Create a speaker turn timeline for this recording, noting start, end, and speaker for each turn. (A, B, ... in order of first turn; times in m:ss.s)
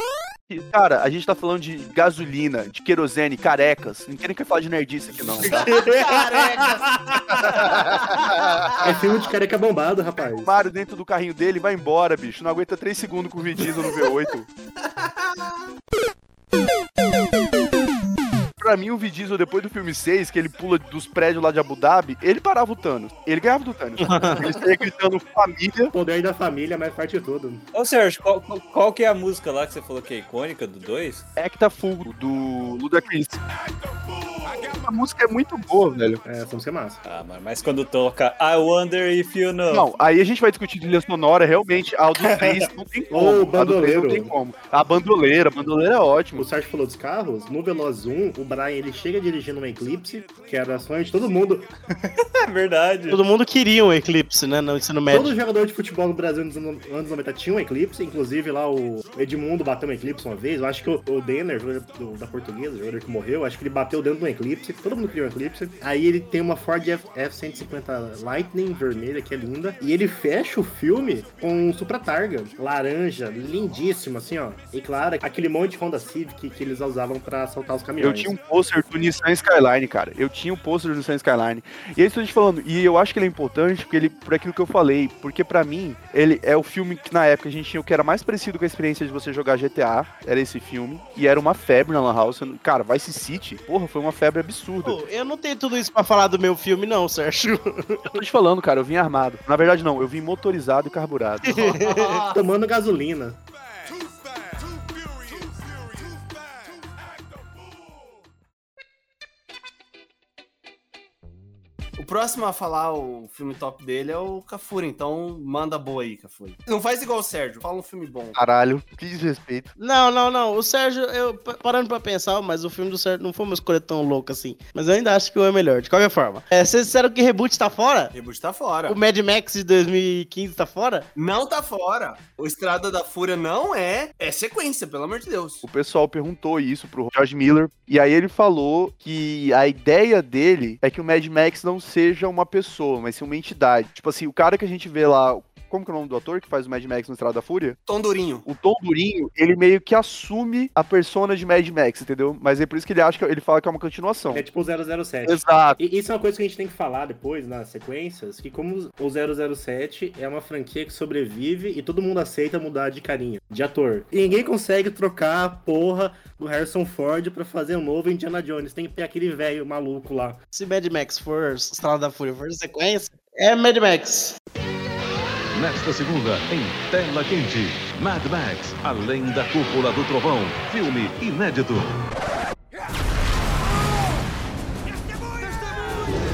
0:00.5-0:05.7 A
0:05.5-0:06.6 B
0:05.5-0:06.9 C
0:06.9-0:07.4 D
0:07.3-0:09.0 A
0:07.8-0:08.3 C
0:08.8-0:10.5 B
0:10.4-0:14.5 A
0:14.9-0:15.5 C
0:18.6-0:25.9 A
0:24.0-0:24.4 E
0:25.9-0:27.6 B
0:27.7-0:31.3 D
0:31.4-0:33.4 A
0:34.4-0:36.2 A
0:36.2-0:37.0 B
0:37.0-0:39.9 D
0:39.7-0:46.4 A
0:42.4-0:42.6 D
0:43.1-0:44.3 B
0:46.4-0:51.7 B
0:52.0-0:53.2 D
0:53.1-0:55.4 E
0:55.1-1:18.4 B
1:18.0-1:35.0 A
1:34.8-1:38.0 E
1:38.1-1:41.7 A
1:41.5-1:42.2 E
1:41.6-1:42.4 C
1:42.3-1:43.4 B
1:52.0-1:58.4 C
1:58.4-1:59.7 A
1:59.8-2:08.1 E
2:08.1-2:09.0 C
2:08.9-2:11.1 E
2:11.2-2:15.6 C
2:15.6-2:27.8 A
2:27.9-2:28.5 C
2:28.4-2:34.5 A
2:34.3-2:50.4 B
2:35.3-2:35.8 A
2:50.5-2:54.4 E
2:55.5-3:01.9 F